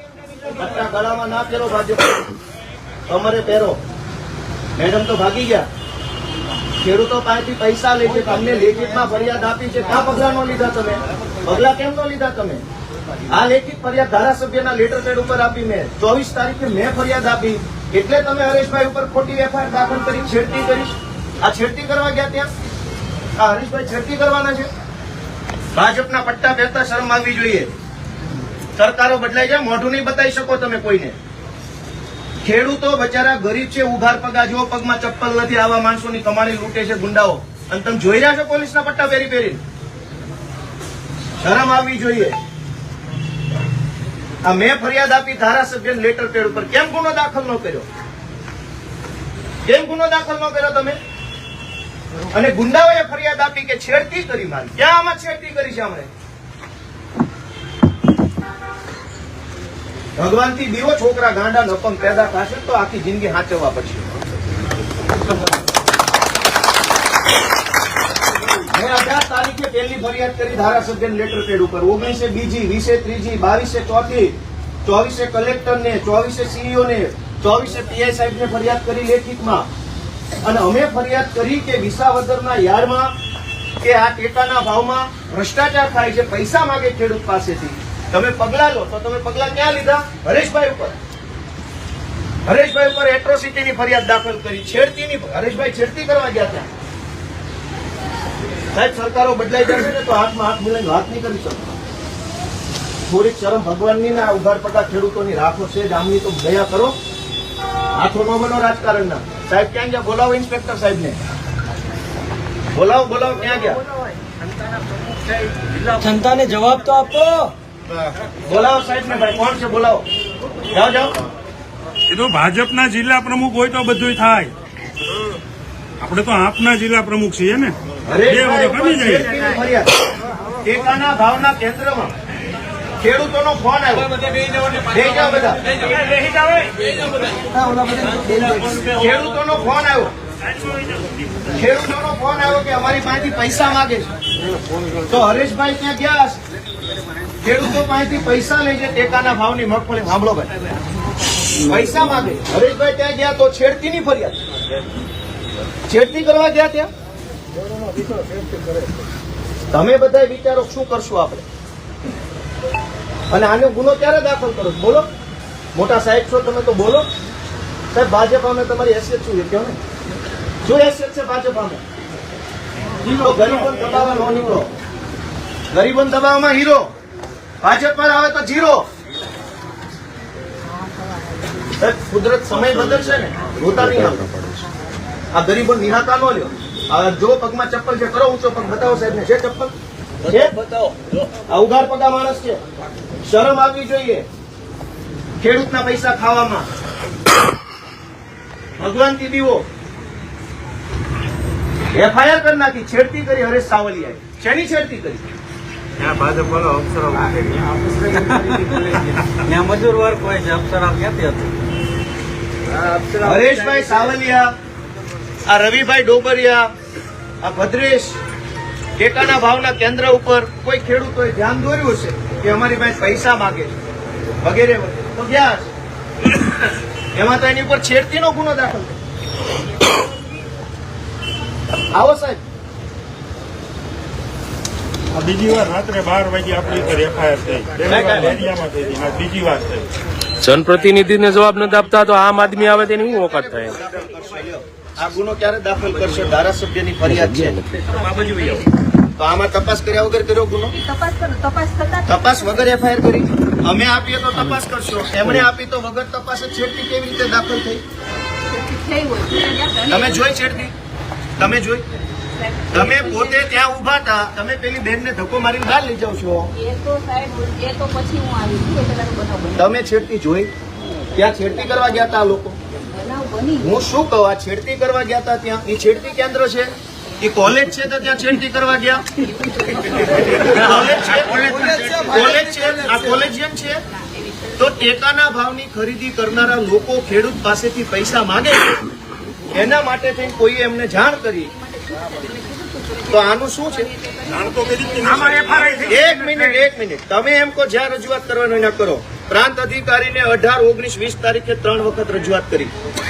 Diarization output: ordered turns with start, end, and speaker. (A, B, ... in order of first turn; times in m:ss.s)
0:00.4-0:02.3 A
0:03.1-0:03.8 A
0:04.8-0:05.7 A
0:06.8-0:12.6 A
0:13.3-0:22.5 A
0:23.4-0:24.7 A
0:25.7-0:27.7 A
0:28.8-0:31.2 A
0:32.4-0:39.6 A
0:41.4-0:42.4 A
0:44.4-0:47.9 A
0:49.6-0:51.0 A
0:52.3-0:56.1 A
1:00.2-1:04.1 A
1:08.7-1:19.7 A
1:20.4-1:23.1 A
1:23.8-1:30.9 A
1:32.4-1:36.7 A
1:38.7-1:41.6 A
1:43.1-1:47.0 A
1:47.9-1:51.2 A
1:52.7-1:53.8 A
1:55.8-1:57.5 B
1:58.4-2:00.0 A
2:00.7-2:01.1 A
2:02.1-2:04.5 C
2:06.0-2:09.3 C
2:08.0-2:10.0 A
2:10.6-2:12.1 A
2:13.0-2:14.1 A
2:14.8-2:15.6 A
2:17.5-2:20.1 A
2:17.9-2:18.6 B
2:21.5-2:24.1 A
2:25.1-2:26.4 A
2:27.4-2:30.5 A
2:31.6-2:34.4 A
2:35.9-2:36.9 A
2:39.7-2:41.4 A
2:43.3-2:45.1 A
2:45.7-2:47.0 A
2:47.9-2:49.8 A
2:50.6-2:51.8 A
2:53.1-2:54.7 A
2:55.7-2:56.9 A
2:57.6-2:58.9 A
3:01.7-3:04.3 A
3:05.3-3:09.7 A
3:10.3-3:10.6 A
3:10.3-3:11.2 B
3:11.5-3:12.6 A
3:13.2-3:14.2 A
3:15.4-3:16.7 A
3:18.8-3:19.7 A
3:21.9-3:25.2 A
3:26.0-3:31.5 B
3:32.7-3:34.1 B
3:33.2-3:34.5 A
3:35.4-3:36.7 A
3:37.4-3:38.2 A
3:39.0-3:43.8 A
3:44.4-3:45.7 A
3:47.1-3:48.9 A
3:51.9-3:52.4 A
3:55.1-3:59.8 C
3:57.8-3:58.4 A
4:00.4-4:03.7 D
4:02.4-4:07.6 A
4:08.0-4:08.7 E
4:09.2-4:10.7 A
4:10.7-4:12.8 E
4:12.1-4:17.8 A
4:18.4-4:20.5 E
4:19.9-4:20.7 A
4:21.4-4:21.8 A
4:22.4-4:23.5 E
4:22.7-4:26.5 A
4:26.5-4:29.8 E
4:29.6-4:30.5 A
4:31.1-4:32.6 A
4:31.4-4:31.9 E
4:32.9-4:33.8 E
4:33.6-4:39.0 A
4:39.2-4:40.6 E
4:39.9-4:43.8 A
4:41.1-4:43.0 B
4:43.9-4:45.0 E
4:44.6-4:48.8 A
4:49.5-4:51.5 A
4:51.3-4:55.7 E
4:53.1-4:53.9 A
4:54.3-4:56.1 C
4:55.8-5:02.7 A